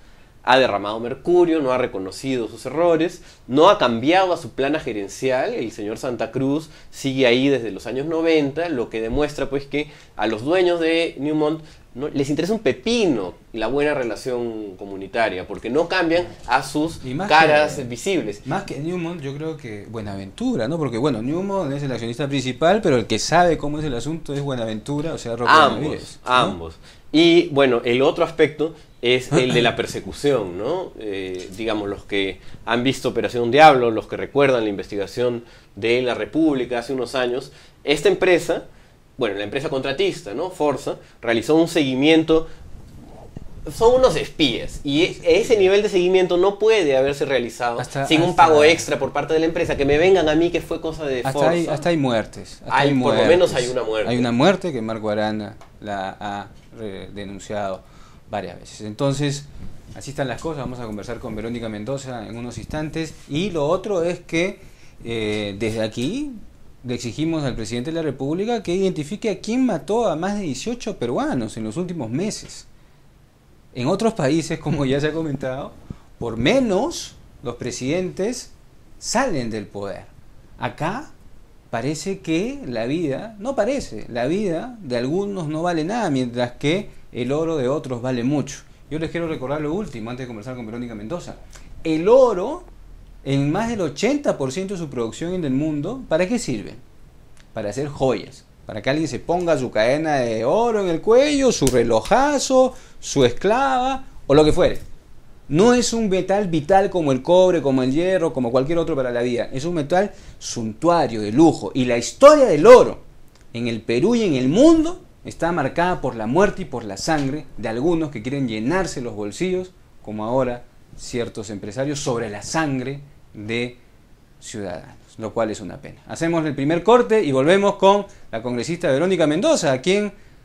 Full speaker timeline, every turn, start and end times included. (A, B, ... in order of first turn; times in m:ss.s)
0:00.4-0:18.4 A
0:17.0-0:17.9 B
0:18.4-0:26.6 B
0:25.4-0:38.6 A
0:39.2-0:42.4 A
0:43.6-0:51.8 A
0:45.2-0:45.7 B
0:47.8-0:48.9 B
0:51.2-1:12.7 B
0:52.7-0:54.3 A
1:13.7-1:21.1 B
1:21.7-1:32.7 B
1:33.2-1:36.8 B
1:37.5-1:44.8 B
1:45.5-2:03.8 B
2:04.4-2:10.1 B